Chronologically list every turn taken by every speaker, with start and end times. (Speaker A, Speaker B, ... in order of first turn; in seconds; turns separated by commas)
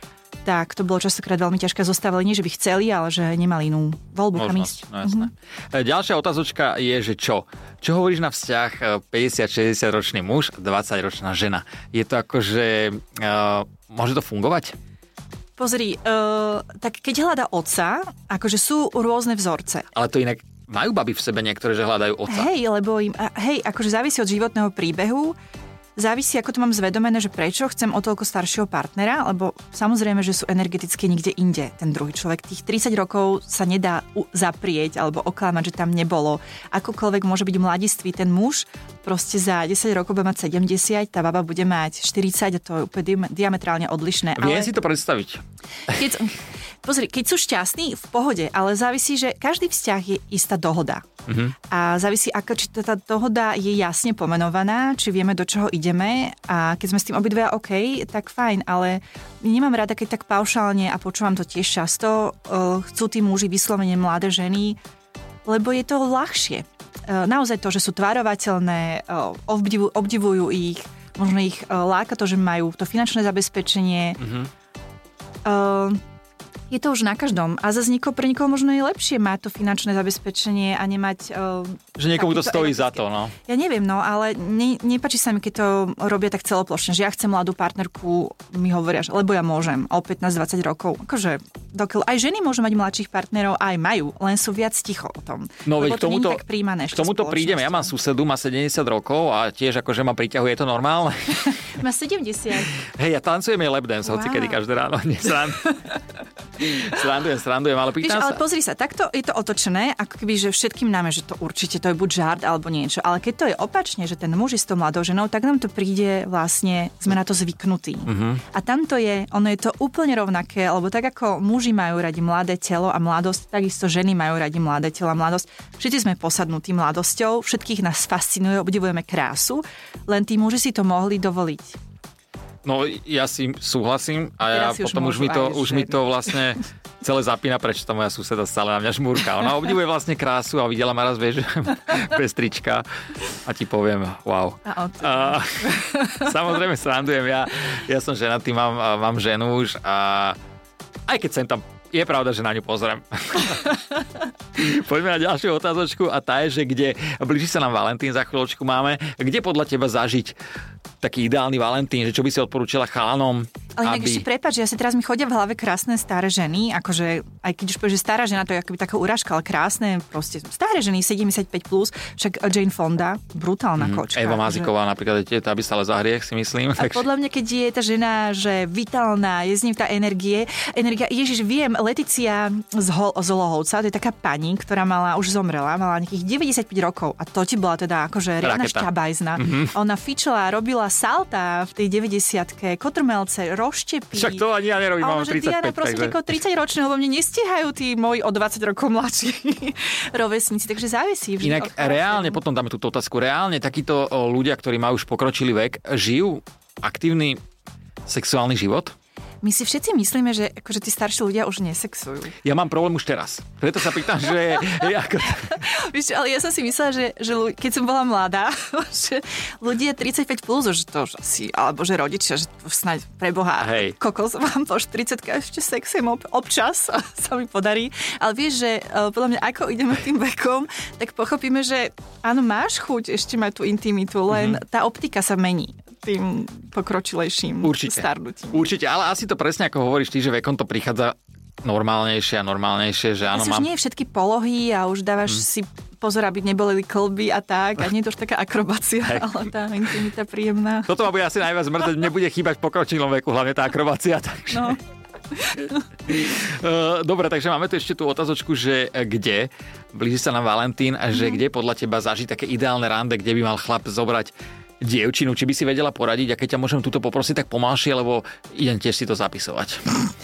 Speaker A: 0.4-5.3, Speaker B: 4.3-14.8, Speaker A: 15.6-19.9, Speaker B: 19.9-22.5, Speaker A: 22.3-25.4, Speaker A: 25.9-44.7, Speaker B: 44.3-45.4, Speaker A: 45.9-51.0, Speaker B: 51.3-51.5, Speaker A: 51.6-64.8, Speaker A: 65.4-74.2, Speaker B: 74.2-74.5, Speaker A: 75.4-76.0, Speaker A: 76.7-97.9, Speaker B: 82.0-83.3, Speaker B: 95.7-101.6, Speaker A: 101.7-102.7, Speaker B: 102.8-105.8, Speaker A: 104.0-104.6, Speaker B: 106.6-108.4, Speaker A: 108.0-131.8, Speaker B: 118.0-118.4, Speaker B: 132.6-150.4, Speaker A: 134.5-136.3, Speaker A: 144.7-146.3, Speaker B: 151.1-153.8, Speaker B: 154.5-160.3, Speaker B: 161.0-164.2, Speaker A: 163.8-174.7, Speaker B: 173.8-177.0, Speaker A: 176.8-194.4, Speaker B: 188.4-189.7, Speaker B: 194.1-196.3, Speaker A: 195.0-202.4, Speaker B: 201.4-207.4, Speaker B: 208.1-208.9, Speaker A: 209.4-212.3, Speaker B: 212.4-215.6, Speaker A: 214.5-214.9, Speaker A: 215.4-238.6, Speaker B: 223.6-223.9, Speaker B: 234.3-234.6, Speaker B: 237.6-243.7, Speaker A: 243.3-250.9, Speaker B: 250.9-254.8, Speaker A: 254.5-254.8, Speaker A: 255.3-255.8, Speaker B: 256.1-269.8, Speaker A: 261.1-261.4